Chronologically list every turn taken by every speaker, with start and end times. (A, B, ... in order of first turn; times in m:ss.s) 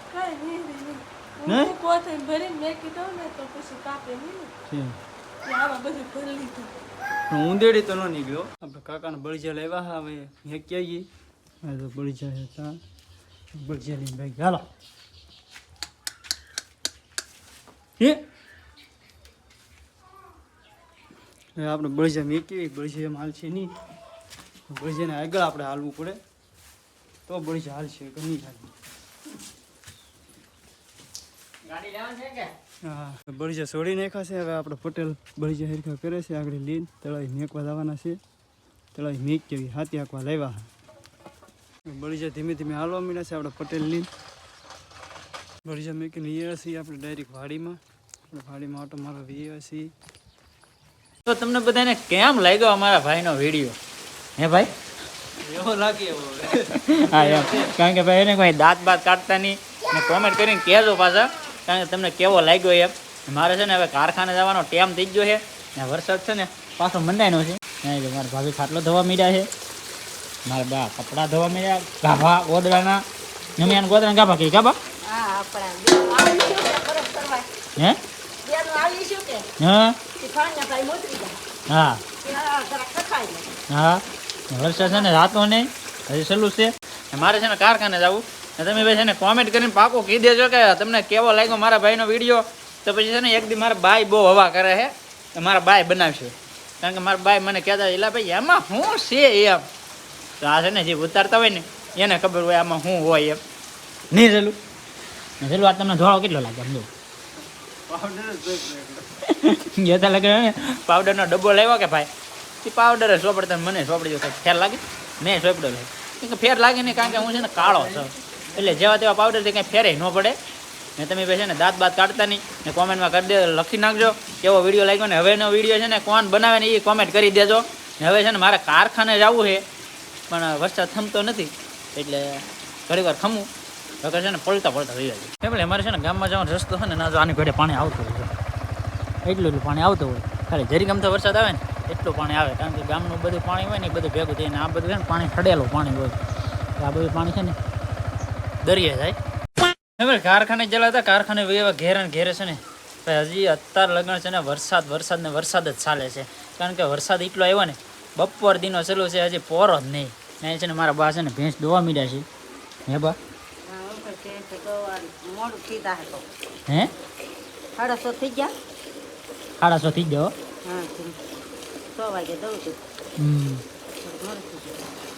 0:00.1-0:04.5 A
0:01.5-0:01.8 B
0:04.7-0:05.0 B
0:05.4-0:06.7 A
0:07.3-0:11.1 B
0:11.6-0:12.8 B
0:13.5-0:14.7 B
0:21.6-0:23.7 B
0:24.7-0:26.2 B
0:27.3-0:28.7 B
0:31.7-0:32.5 C
0:32.8-0:38.2 B
0:38.9-0:40.7 B
0:41.9-0:44.1 B
0:45.6-0:47.8 B
0:48.3-0:49.9 B
0:51.2-0:53.8 C
0:54.4-0:54.7 C
0:55.4-0:57.8 B
0:56.8-1:09.5 C
1:10.5-1:13.0 C
1:13.6-1:14.8 C
1:15.0-1:17.5 D
1:18.4-1:19.5 D
1:19.6-1:20.0 C
1:20.1-1:21.4 D
1:21.7-1:22.0 C
1:22.2-1:23.5 D
1:23.7-1:39.6 C
1:40.4-1:43.4 C
1:44.1-1:44.6 C
1:45.4-1:46.9 C
1:47.9-1:49.1 B
1:49.2-1:52.1 C
1:52.6-2:00.4 C
2:01.0-2:09.6 C
2:10.3-2:13.5 C
2:14.0-2:18.3 C
2:19.2-2:26.2 C
2:26.8-2:27.6 C
2:28.6-2:42.3 C
2:42.9-2:43.2 C
2:43.6-2:46.3 D
2:47.8-2:48.5 D
2:49.6-2:50.3 C
2:50.6-2:51.2 D
2:51.9-2:52.8 D
2:53.2-2:53.6 C
2:54.0-2:54.9 D